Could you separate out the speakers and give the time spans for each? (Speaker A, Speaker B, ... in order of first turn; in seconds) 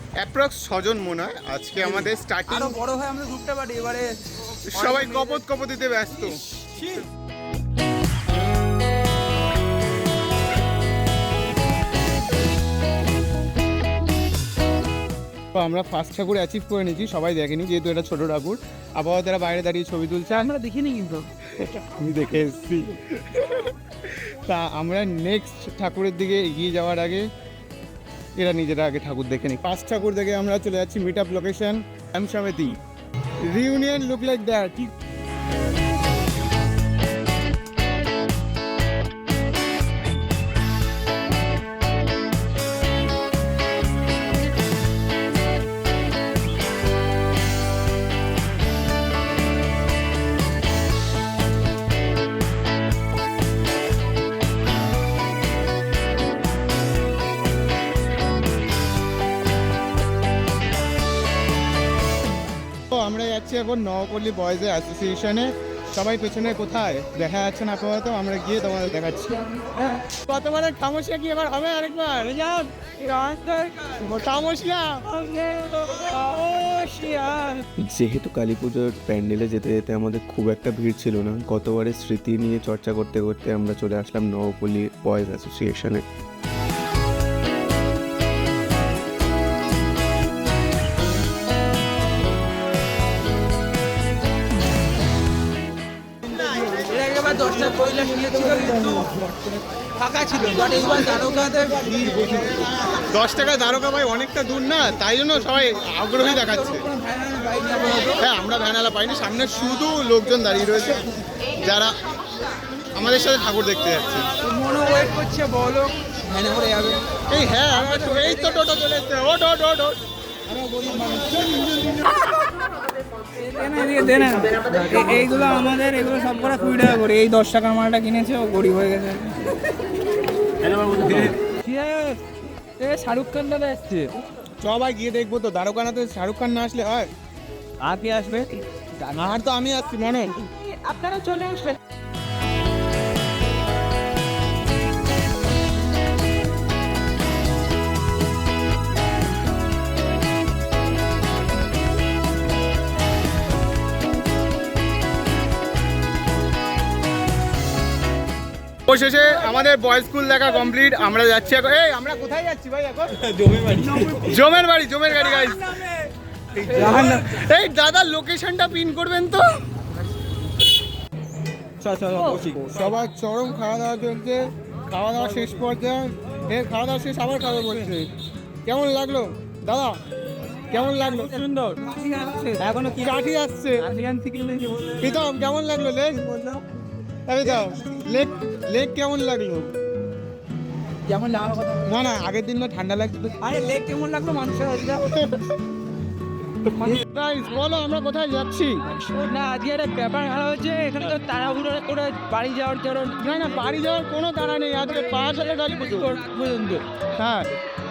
Speaker A: 0.2-2.8, 4.7-6.4, 15.5-20.5, 21.6-27.2, 28.4-32.7, 33.5-34.9, 62.9-69.4, 70.2-72.3, 74.1-75.0, 103.1-106.8, 108.2-112.0, 112.9-114.3, 117.3-120.0, 134.6-137.1, 139.1-140.3, 158.9-163.5, 164.1-165.8, 166.6-169.4, 171.8-178.1, 178.7-179.9, 180.7-181.3, 182.9-183.9, 185.0-186.6, 187.3-189.7, 191.8-193.4, 195.1-195.4, 196.8-198.8, 203.2-206.2, 207.2-207.5
Speaker B: 1.8-5.4, 6.2-7.1, 20.3-21.3, 72.2-74.2, 75.1-77.6, 96.3-102.6, 106.2-108.2, 114.4-117.0, 117.7-118.7, 120.5-122.3, 123.4-129.6, 130.7-132.2, 132.8-134.2, 137.8-139.3, 140.3-141.8, 163.4-164.4, 166.6-167.2, 172.0-172.6, 181.1-183.1, 183.8-185.1, 191.1-191.8, 193.4-195.3, 196.7-197.0, 199.1-203.2, 205.5-206.8
Speaker C: 77.9-86.0